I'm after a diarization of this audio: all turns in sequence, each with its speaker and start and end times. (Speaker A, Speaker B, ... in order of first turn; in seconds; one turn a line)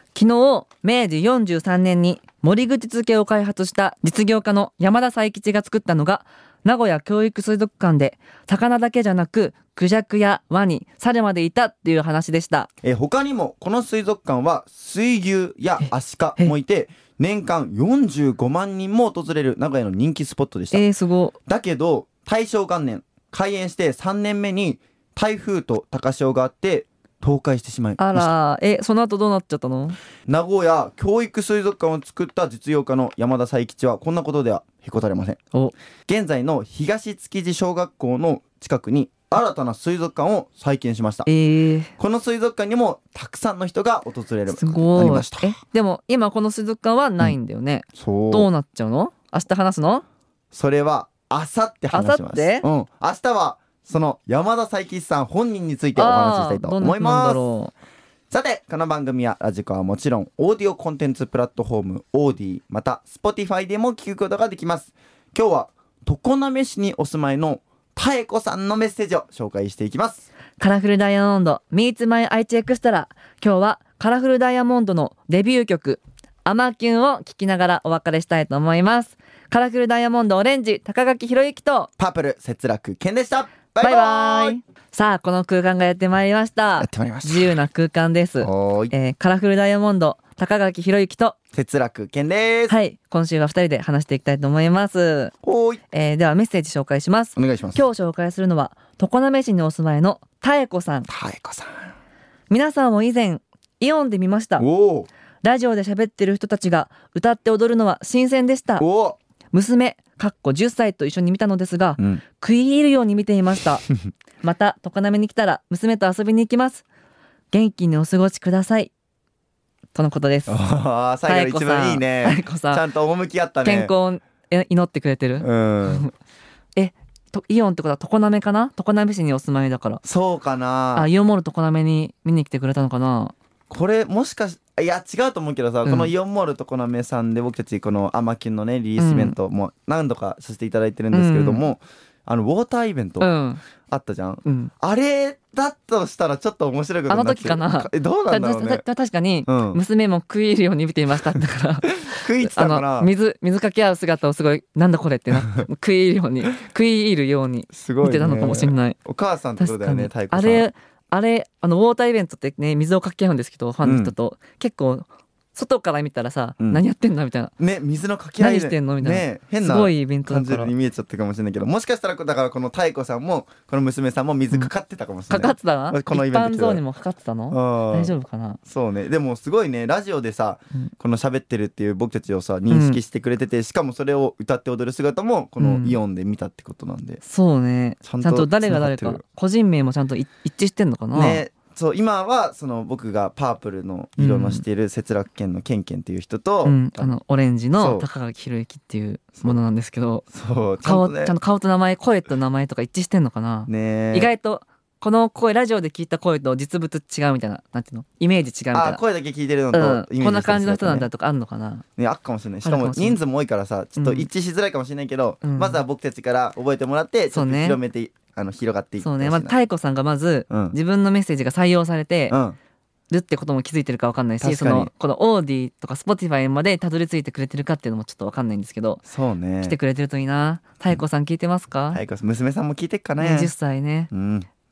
Speaker A: 0.1-12.7
Speaker B: 12.8-20.9
Speaker A: 20.7-21.4
Speaker B: 21.4-28.3
Speaker A: 28.0-30.0
Speaker B: 30.3-35.4
Speaker B: 36.1-41.3
Speaker A: 41.3-41.9
Speaker B: 42.0-45.6
Speaker A: 44.5-50.0
Speaker B: 48.0-48.5
Speaker B: 50.5-57.4
Speaker A: 51.9-52.6
Speaker A: 56.0-57.7
Speaker B: 58.3-70.2
Speaker A: 70.6-81.9
Speaker B: 82.0-84.6
Speaker A: 83.8-91.3
Speaker B: 86.8-87.6
Speaker B: 88.4-88.9
Speaker B: 91.5-92.8
Speaker A: 92.7-95.3
Speaker B: 95.4-95.8
Speaker A: 95.9-101.1
Speaker B: 97.3-97.8
Speaker B: 101.1-101.8
Speaker A: 102.5-104.6
Speaker B: 104.6-105.1
Speaker A: 105.4-108.8
Speaker B: 108.8-109.2
Speaker A: 109.5-113.8
Speaker B: 112.0-112.2
Speaker A: 114.4-116.8
Speaker A: 117.5-118.9
Speaker A: 119.9-120.5
Speaker B: 120.5-123.9
Speaker A: 121.3-122.8
Speaker A: 123.6-126.1
Speaker B: 125.4-126.1
Speaker A: 126.8-130.0
Speaker B: 130.0-131.1
Speaker A: 130.9-133.3
Speaker B: 133.7-143.3
Speaker A: 135.8-136.1
Speaker A: 139.0-139.3
Speaker A: 141.1-141.7
Speaker A: 143.2-143.6
Speaker B: 143.8-148.8
Speaker A: 144.4-144.7
Speaker A: 147.1-159.0
Speaker B: 149.5-149.8
Speaker B: 151.8-153.1
Speaker B: 155.3-155.6
Speaker B: 157.7-160.7
Speaker A: 159.6-167.5
Speaker B: 163.8-164.1
Speaker B: 167.6-176.8
Speaker A: 168.4-170.7
Speaker A: 175.3-178.6
Speaker B: 177.5-178.1
Speaker B: 178.7-187.2
Speaker A: 182.7-183.0
Speaker A: 185.6-186.0
Speaker A: 187.2-191.4
Speaker B: 188.0-189.2
Speaker B: 191.1-197.2
Speaker A: 194.2-194.6
Speaker A: 196.6-200.2
Speaker B: 197.8-198.1
Speaker B: 200.3-201.3
Speaker A: 200.8-209.0
Speaker B: 203.7-204.3
Speaker B: 208.7-211.1
Speaker A: 209.7-211.8
Speaker B: 212.0-219.6
Speaker A: 212.6-213.2
Speaker A: 214.0-214.3
Speaker A: 215.4-215.8
Speaker A: 217.3-217.8
Speaker A: 219.0-222.4
Speaker B: 220.5-220.8
Speaker B: 222.3-222.6
Speaker A: 223.1-229.0
Speaker B: 224.4-224.9
Speaker B: 229.1-229.8
Speaker A: 229.6-232.0
Speaker B: 231.9-233.5
Speaker A: 233.2-234.1
Speaker B: 234.1-234.5